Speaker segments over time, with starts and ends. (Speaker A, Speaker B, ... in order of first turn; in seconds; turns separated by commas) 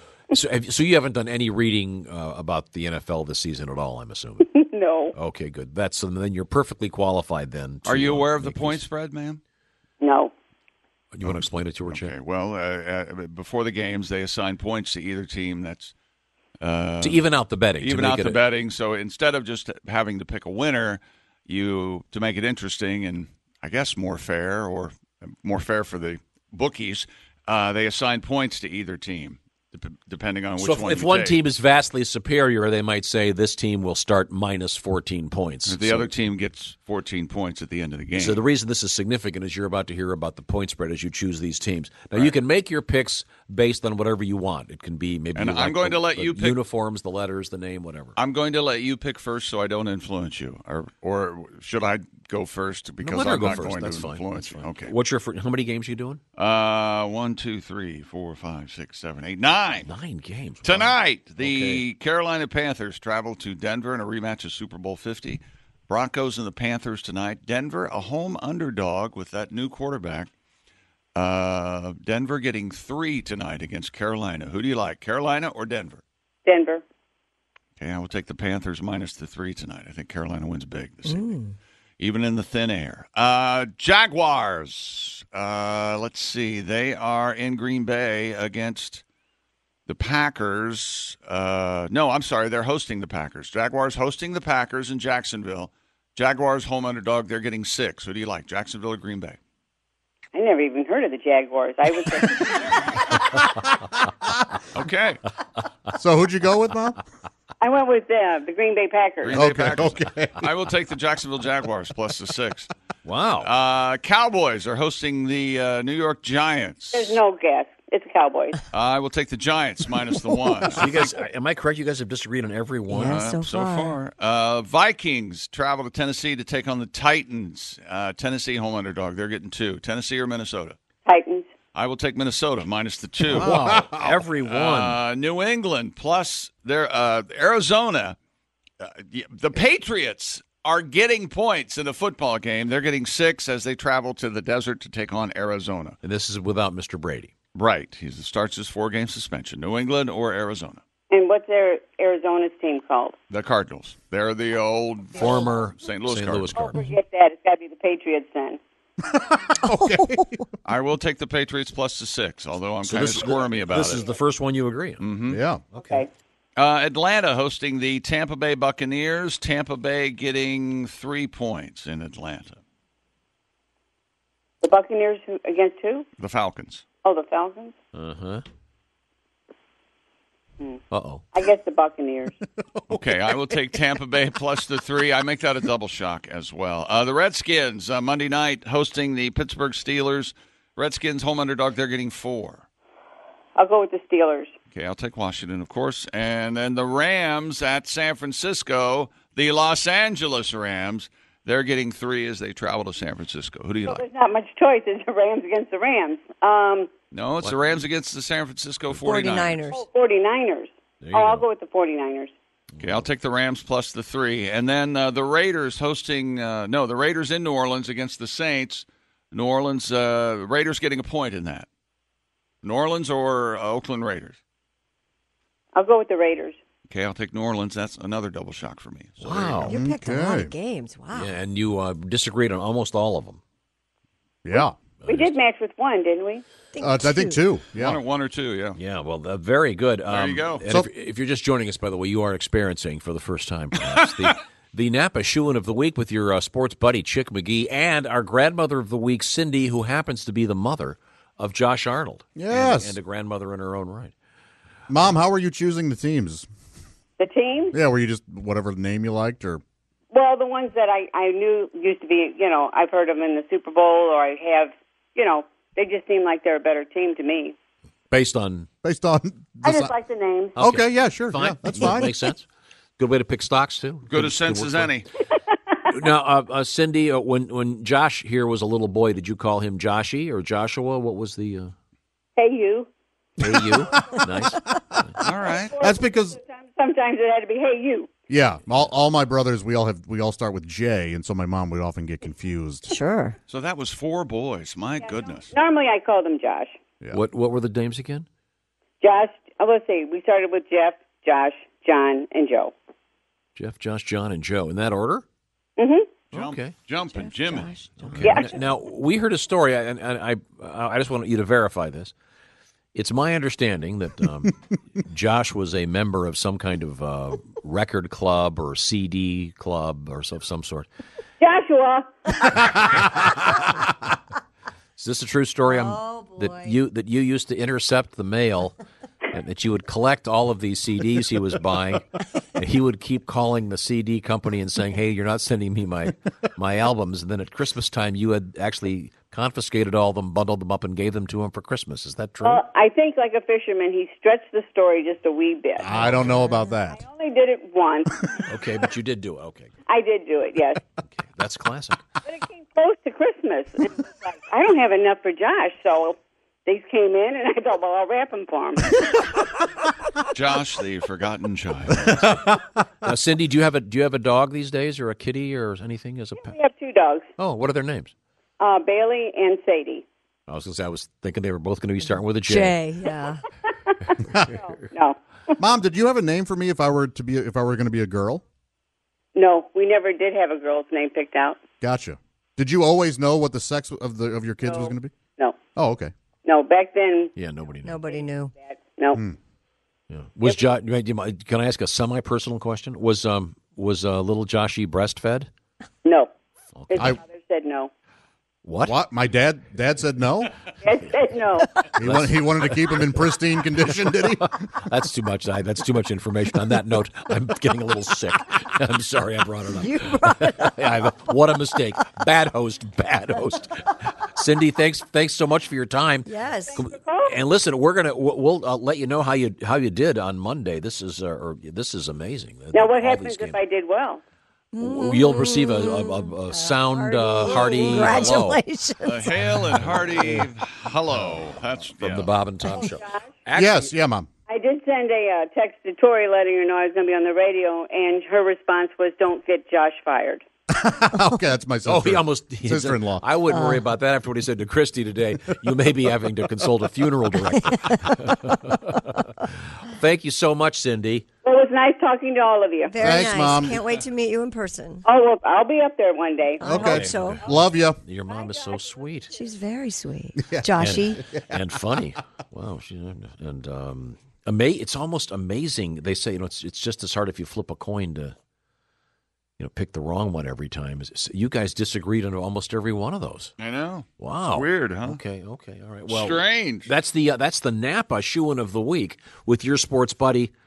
Speaker A: 0.3-4.6, Speaker B: 4.4-5.2, Speaker A: 5.2-8.9, Speaker C: 7.8-9.4, Speaker B: 10.0-10.3, Speaker A: 11.1-12.1, Speaker C: 11.9-15.9, Speaker C: 16.6-17.2, Speaker A: 17.0-18.4, Speaker C: 17.8-31.4, Speaker A: 30.6-36.1, Speaker C: 35.7-38.4, Speaker A: 38.1-48.2, Speaker C: 45.4-46.6, Speaker C: 48.2-54.9, Speaker A: 53.0-56.2, Speaker C: 56.4-59.9, Speaker A: 59.8-61.9, Speaker C: 60.6-70.3, Speaker C: 71.2-76.0, Speaker B: 76.5-76.8, Speaker C: 77.8-81.4, Speaker D: 81.1-81.5, Speaker C: 82.0-89.0, Speaker C: 89.9-99.4, Speaker B: 100.3-103.1, Speaker C: 104.7-105.2, Speaker E: 105.9-107.0, Speaker B: 107.6-109.4, Speaker C: 109.2-112.7, Speaker E: 109.3-110.5, Speaker A: 113.0-113.5, Speaker C: 113.4-117.2, Speaker B: 116.9-118.6, Speaker C: 118.7-120.9, Speaker A: 120.7-123.2, Speaker C: 122.9-130.8, Speaker D: 122.9-124.0, Speaker B: 131.1-131.5, Speaker C: 131.7-133.6, Speaker A: 133.3-135.0, Speaker E: 133.3-134.2, Speaker C: 134.4-138.2, Speaker C: 138.8-146.0, Speaker A: 146.0-147.3, Speaker C: 147.6-150.8, Speaker B: 151.1-153.2, Speaker C: 153.3-156.6, Speaker A: 155.2-156.9, Speaker B: 156.6-158.6, Speaker E: 159.1-160.4, Speaker C: 160.7-164.0, Speaker A: 162.8-165.0, Speaker C: 165.0-165.4, Speaker E: 165.3-165.7, Speaker B: 165.8-166.1, Speaker C: 166.6-172.6, Speaker B: 174.6-176.1, Speaker C: 176.2-176.8, Speaker B: 177.0-177.7, Speaker A: 177.9-178.4, Speaker A: 180.9-181.3, Speaker B: 181.3-182.4, Speaker C: 182.9-192.7, Speaker B: 193.6-194.5, Speaker C: 194.8-204.0, Speaker B: 203.9-206.9, Speaker C: 207.1-209.6, Speaker A: 207.4-207.8, Speaker D: 209.0-209.8, Speaker B: 209.7-212.3, Speaker A: 211.0-211.5, Speaker A: 212.8-213.1, Speaker C: 212.8-221.7, Speaker C: 222.6-224.4, Speaker B: 225.8-226.6, Speaker C: 226.9-229.7, Speaker A: 229.2-229.7, Speaker D: 229.6-231.3, Speaker E: 229.7-230.5, Speaker A: 231.1-233.4, Speaker E: 234.4-234.8, Speaker A: 235.0-235.3, Speaker B: 235.1-236.4, Speaker D: 236.7-237.4, Speaker E: 236.8-238.0, Speaker C: 237.7-238.8, Speaker A: 238.8-254.1, Speaker C: 240.1-240.7, Speaker E: 252.4-252.9, Speaker E: 254.9-256.5, Speaker B: 257.2-257.8, Speaker E: 257.7-259.6, Speaker B: 260.1-267.6, Speaker A: 268.1-268.7, Speaker E: 268.8-269.9, Speaker B: 269.6-270.6, Speaker A: 270.6-275.0, Speaker E: 270.6-272.2, Speaker C: 274.1-275.1, Speaker A: 275.9-281.7, Speaker B: 282.4-282.9, Speaker A: 283.4-285.2, Speaker E: 284.0-284.2, Speaker C: 285.2-285.8, Speaker B: 285.5-288.1, Speaker E: 285.8-286.4, Speaker E: 288.3-292.9, Speaker A: 288.6-288.9, Speaker D: 292.9-293.4, Speaker C: 293.5-295.5, Speaker B: 295.0-296.8, Speaker A: 297.1-298.3, Speaker B: 299.0-302.7, Speaker A: 303.6-305.2, Speaker B: 305.8-306.2, Speaker C: 306.3-308.2, Speaker A: 306.3-306.8, Speaker D: 307.1-308.4, Speaker A: 308.0-312.1, Speaker B: 308.2-308.6, Speaker A: 312.9-320.9, Speaker B: 321.4-322.2, Speaker A: 325.0-328.7, Speaker D: 325.7-326.8, Speaker A: 329.3-342.6, Speaker B: 342.4-346.1, Speaker E: 345.8-347.0, Speaker A: 345.9-346.6, Speaker B: 346.9-348.5, Speaker A: 348.5-349.7, Speaker B: 349.9-350.8, Speaker A: 351.0-352.0, Speaker B: 352.2-359.3, Speaker C: 360.3-362.4, Speaker A: 363.0-366.6, Speaker B: 366.4-367.3, Speaker A: 367.4-368.1, Speaker B: 368.6-370.1, Speaker A: 370.5-372.8, Speaker D: 372.5-373.4, Speaker B: 373.7-375.2, Speaker E: 375.6-378.4, Speaker B: 379.4-381.6, Speaker E: 381.8-385.1, Speaker B: 384.6-385.6, Speaker E: 385.8-386.1, Speaker B: 386.4-387.3, Speaker A: 387.4-388.0, Speaker D: 387.8-388.6, Speaker B: 388.0-389.2, Speaker A: 390.1-395.5, Speaker B: 396.1-396.3, Speaker A: 396.8-397.2, Speaker B: 396.9-397.9, Speaker A: 398.6-399.0, Speaker E: 398.8-400.5, Speaker B: 400.8-401.8, Speaker A: 401.8-403.3, Speaker E: 402.0-404.6, Speaker A: 403.9-423.6, Speaker D: 409.8-410.8, Speaker D: 416.2-416.8, Speaker B: 416.7-417.4, Speaker B: 422.7-424.2, Speaker D: 424.8-429.5, Speaker A: 424.8-428.6, Speaker C: 429.0-432.3, Speaker A: 429.7-430.5, Speaker A: 432.0-433.9, Speaker B: 432.8-433.3, Speaker E: 433.5-434.3, Speaker B: 434.5-440.4, Speaker E: 440.7-443.2, Speaker A: 441.8-451.3, Speaker D: 443.5-443.8, Speaker B: 451.4-453.1, Speaker D: 452.9-455.1, Speaker E: 453.0-453.8, Speaker B: 455.1-456.9, Speaker D: 456.6-457.7, Speaker E: 456.7-458.0, Speaker A: 456.7-459.3, Speaker B: 458.4-459.5, Speaker D: 459.3-461.3, Speaker E: 460.4-461.5, Speaker A: 460.7-468.4, Speaker A: 469.6-473.5, Speaker C: 473.6-475.2, Speaker A: 474.2-480.5, Speaker C: 476.1-476.9